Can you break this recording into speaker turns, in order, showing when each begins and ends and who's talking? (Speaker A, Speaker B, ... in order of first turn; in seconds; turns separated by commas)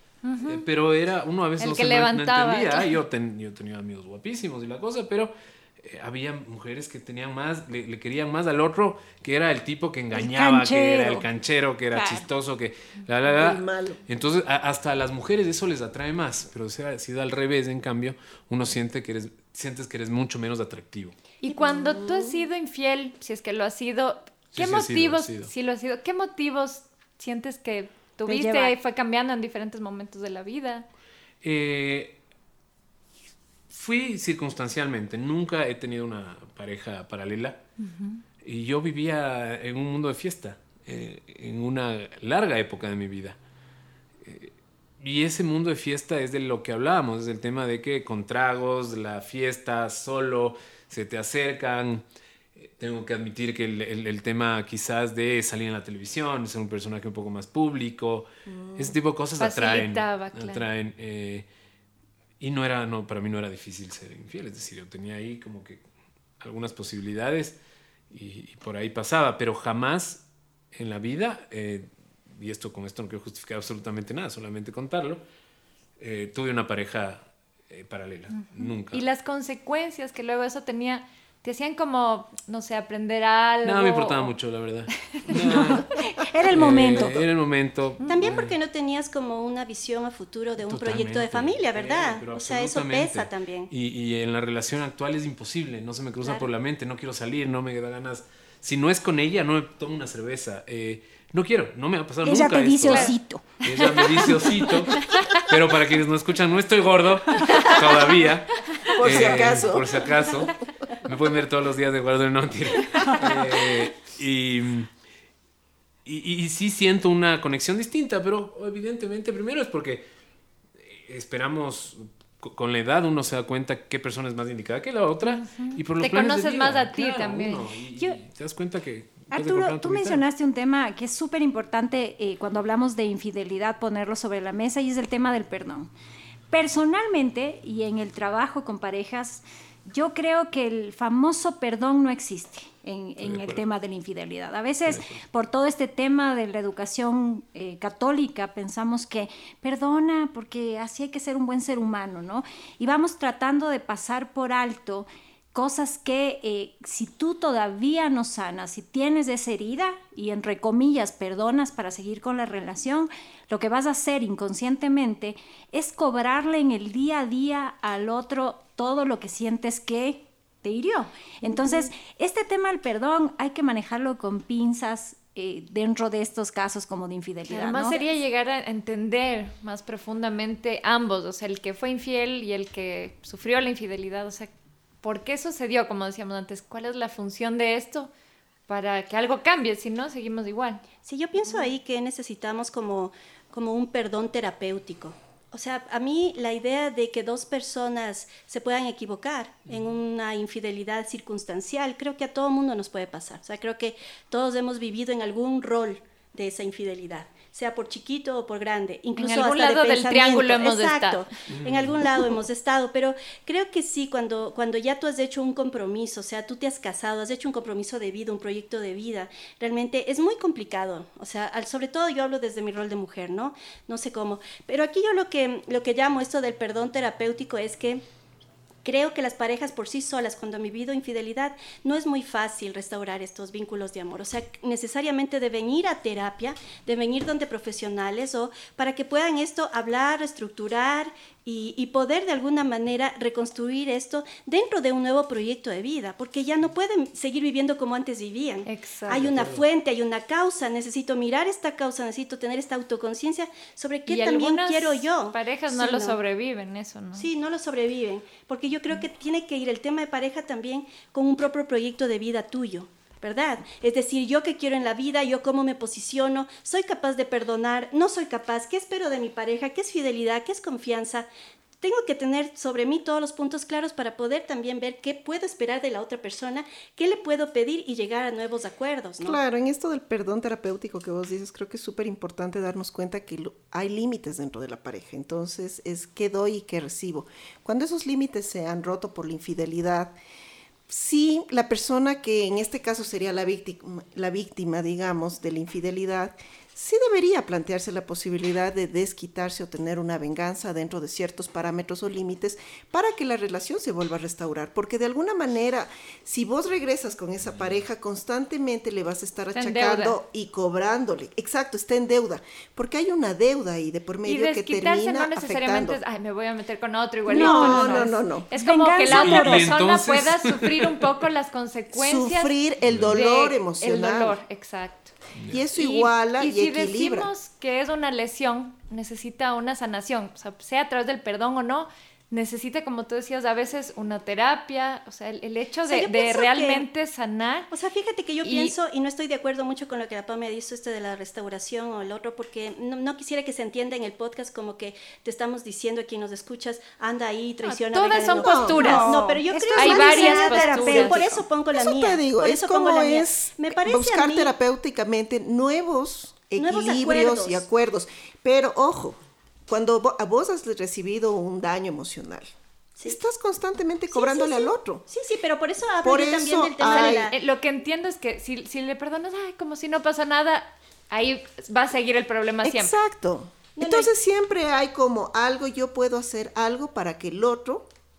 Speaker A: 0.2-0.7, Speaker B: 0.5-21.2, Speaker A: 1.6-3.0, Speaker C: 10.1-11.2, Speaker C: 11.9-12.3, Speaker D: 13.3-14.0, Speaker A: 21.4-30.9, Speaker D: 21.5-22.3, Speaker B: 24.5-25.5, Speaker C: 28.3-28.8, Speaker B: 31.4-32.2, Speaker B: 33.7-37.6, Speaker A: 37.9-38.2, Speaker B: 38.4-43.4, Speaker B: 44.2-52.0, Speaker B: 52.6-61.5, Speaker D: 58.5-59.0, Speaker A: 59.4-60.6, Speaker B: 62.4-65.8, Speaker B: 66.4-67.6, Speaker B: 68.1-75.2, Speaker B: 76.0-79.0, Speaker A: 78.5-84.3, Speaker B: 83.6-88.6, Speaker C: 85.6-87.2, Speaker E: 88.0-93.7, Speaker B: 90.6-114.9, Speaker E: 96.2-96.5, Speaker C: 102.2-104.3, Speaker A: 102.8-103.2, Speaker A: 104.9-105.4, Speaker D: 109.0-110.1, Speaker B: 116.0-120.1, Speaker B: 120.8-130.2, Speaker A: 125.2-127.7, Speaker C: 129.3-135.9, Speaker C: 136.5-178.1, Speaker B: 143.2-143.6, Speaker B: 144.9-145.2, Speaker A: 177.5-184.5, Speaker A: 185.0-188.1, Speaker A: 188.7-190.9, Speaker E: 191.0-228.0, Speaker B: 199.7-199.9, Speaker A: 209.2-211.3, Speaker B: 211.5-212.0, Speaker E: 228.8-256.2, Speaker A: 248.7-249.3, Speaker B: 249.2-249.6, Speaker A: 254.1-257.3, Speaker E: 257.2-271.3, Speaker E: 271.8-279.4, Speaker D: 279.2-290.2, Speaker D: 290.9-316.0, Speaker A: 309.6-310.2, Speaker A: 314.3-322.6, Speaker C: 317.3-319.7, Speaker D: 317.3-318.5, Speaker B: 319.0-321.0, Speaker D: 321.9-324.4, Speaker B: 322.8-323.2, Speaker A: 323.1-325.1, Speaker B: 325.4-325.7, Speaker D: 325.5-327.3, Speaker A: 325.7-337.7, Speaker E: 335.9-336.9, Speaker E: 337.7-354.5, Speaker A: 338.4-338.8, Speaker A: 347.7-351.3, Speaker D: 348.2-349.2, Speaker C: 348.7-351.3, Speaker D: 351.7-362.5, Speaker E: 356.6-357.6, Speaker D: 363.1-365.1, Speaker E: 364.1-367.4, Speaker D: 366.0-367.3, Speaker A: 366.8-373.0, Speaker D: 372.6-377.9, Speaker E: 373.8-374.1